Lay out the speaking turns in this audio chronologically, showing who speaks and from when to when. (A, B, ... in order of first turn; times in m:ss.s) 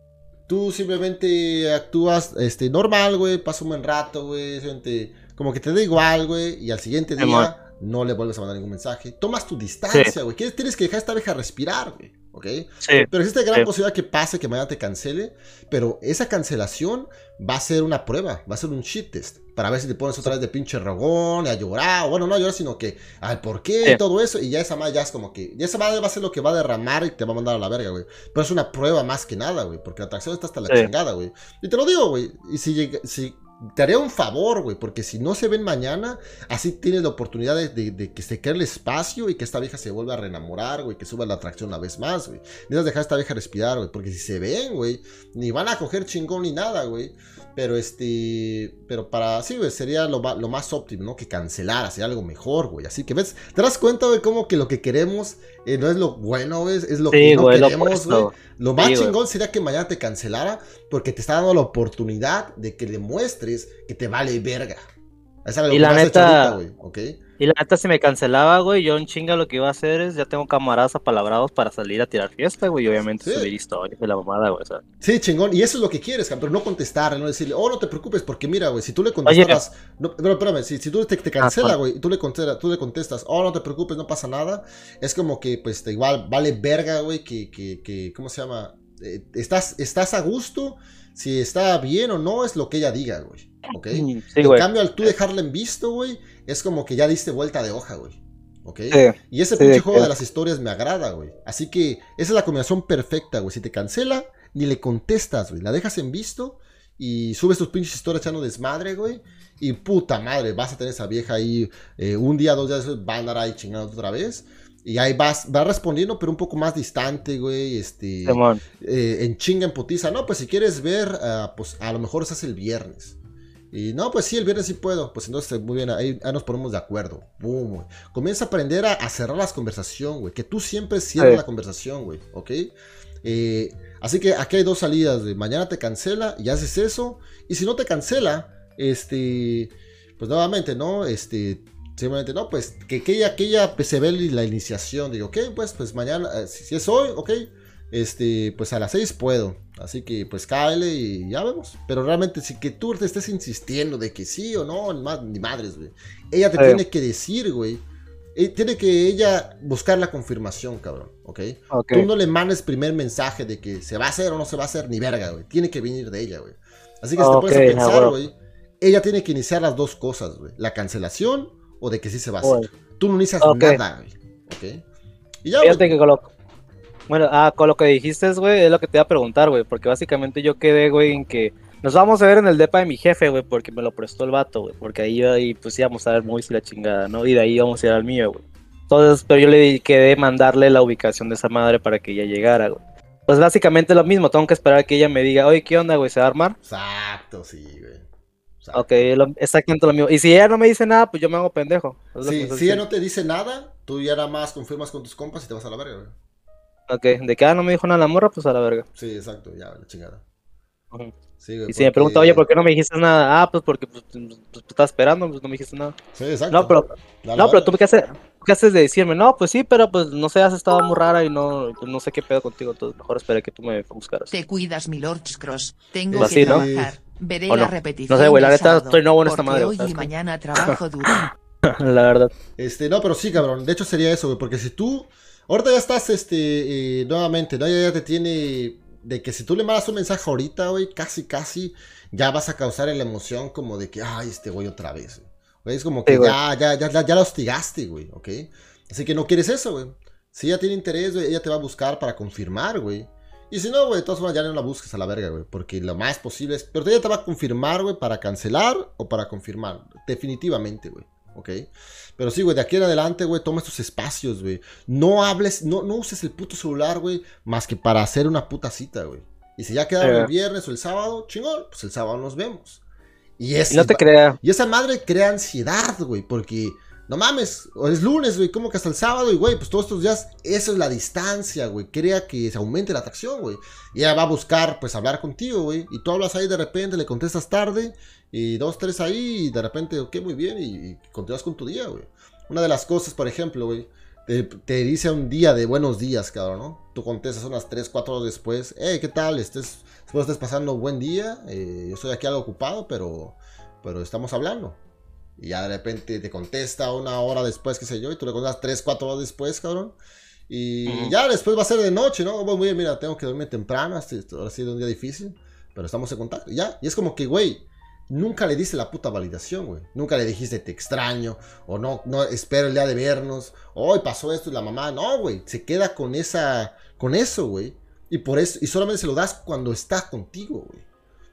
0:00.5-1:04.8 A
0:07.2-0:07.5 B
0:12.8-0:13.7 B
0:57.1-0:59.1 B
1:05.4-1:07.2 A
1:05.7-1:06.6 B
1:07.4-1:14.8 B
1:13.2-1:13.5 A
1:15.0-2:03.2 A
1:19.3-1:19.6 B
1:21.4-1:21.8 B
1:33.9-1:35.1 B
1:38.9-1:40.1 B
1:58.3-1:58.6 B
2:03.7-2:37.8 A
2:38.4-2:54.8 A
2:41.7-2:42.1 B
2:47.2-2:48.2 B
2:52.4-2:52.7 B
2:53.4-2:53.8 B
2:55.4-2:56.0 A
2:55.6-2:56.3 B
2:57.1-3:16.6 B
3:16.6-3:18.1 A
3:18.6-3:19.1 A
3:18.7-3:22.8 B
3:22.2-3:26.1 A
3:26.9-3:28.9 B
3:29.0-3:30.2 A
3:31.4-3:32.4 A
3:31.7-3:36.0 B
3:36.2-3:37.7 A
3:36.5-3:44.3 B
3:44.3-3:51.3 C
3:46.1-3:46.9 A
3:46.2-3:46.7 B
3:47.5-3:50.1 B
3:51.6-3:52.3 B
3:52.6-4:32.8 A
4:06.1-4:06.4 B
4:30.0-4:30.3 B
4:33.4-5:04.8 A
4:33.7-4:34.4 B
5:05.4-5:10.0 A
5:10.5-5:30.8 A
5:10.9-5:11.1 B